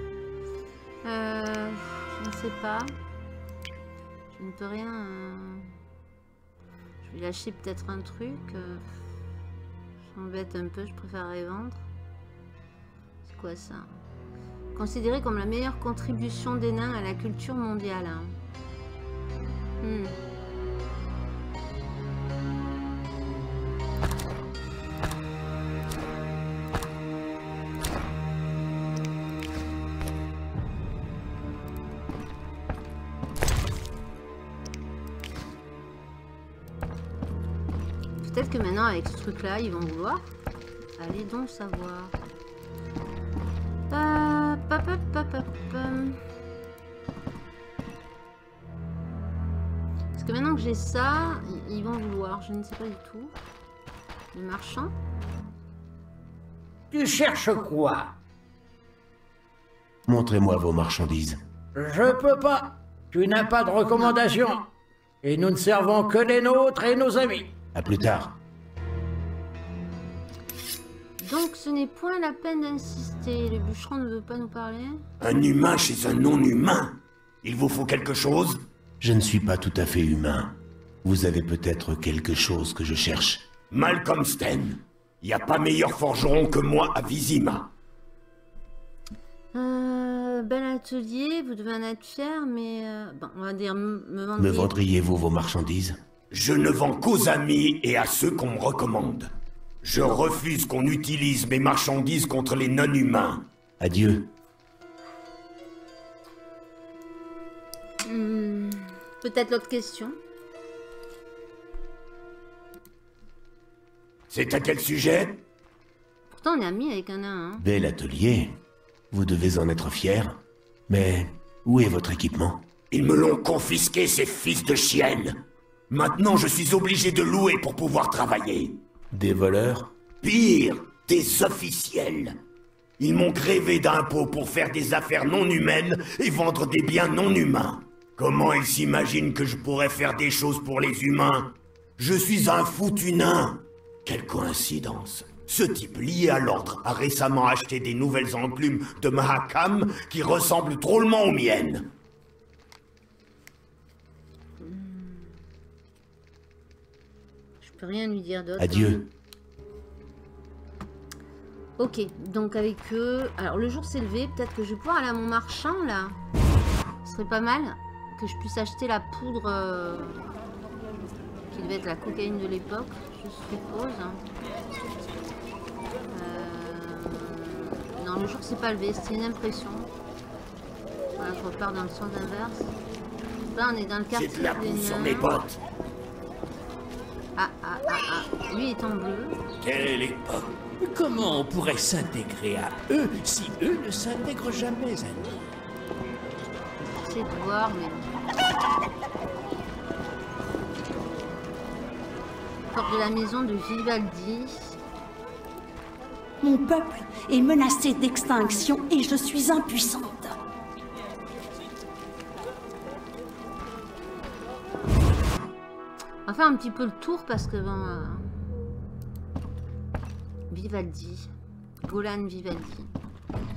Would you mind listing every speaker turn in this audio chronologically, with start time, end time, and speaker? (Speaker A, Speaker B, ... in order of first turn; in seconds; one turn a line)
Speaker A: 1.0-2.9
Speaker A: 4.3-5.7
Speaker A: 7.0-8.9
Speaker A: 10.1-11.8
Speaker A: 13.2-13.9
Speaker A: 14.8-18.4
Speaker A: 19.8-20.2
Speaker A: 38.2-40.3
Speaker A: 41.0-42.1
Speaker A: 43.9-46.2
Speaker A: 50.2-53.4
Speaker A: 54.3-54.9
Speaker B: 56.9-58.1
Speaker C: 60.1-61.4
Speaker B: 61.7-64.6
Speaker B: 65.2-67.5
Speaker C: 67.7-68.3
Speaker A: 71.2-75.0
Speaker D: 75.2-78.6
Speaker C: 79.0-83.5
Speaker D: 83.7-87.7
Speaker A: 89.5-94.7
Speaker C: 94.3-96.0
Speaker D: 96.3-99.3
Speaker D: 99.8-103.4
Speaker C: 103.8-104.3
Speaker A: 108.0-110.2
Speaker D: 114.3-115.4
Speaker A: 116.3-117.6
Speaker C: 117.6-118.6
Speaker C: 119.1-122.6
Speaker D: 122.9-125.4
Speaker D: 125.9-128.8
Speaker C: 129.1-129.9
Speaker D: 130.2-132.3
Speaker D: 133.0-151.9
Speaker A: 154.6-155.3
Speaker A: 157.6-159.1
Speaker C: 158.6-159.0
Speaker A: 161.8-166.2
Speaker A: 167.0-170.2
Speaker A: 171.5-174.2
Speaker A: 176.1-179.9
Speaker A: 181.2-182.7
Speaker A: 183.5-185.3
Speaker D: 184.1-185.6
Speaker A: 187.4-189.4
Speaker E: 189.6-195.4
Speaker A: 197.0-198.0
Speaker A: 202.7-204.8
Speaker F: 206.4-210.3
Speaker A: 216.3-218.3
Speaker A: 220.5-221.3
Speaker A: 221.8-222.9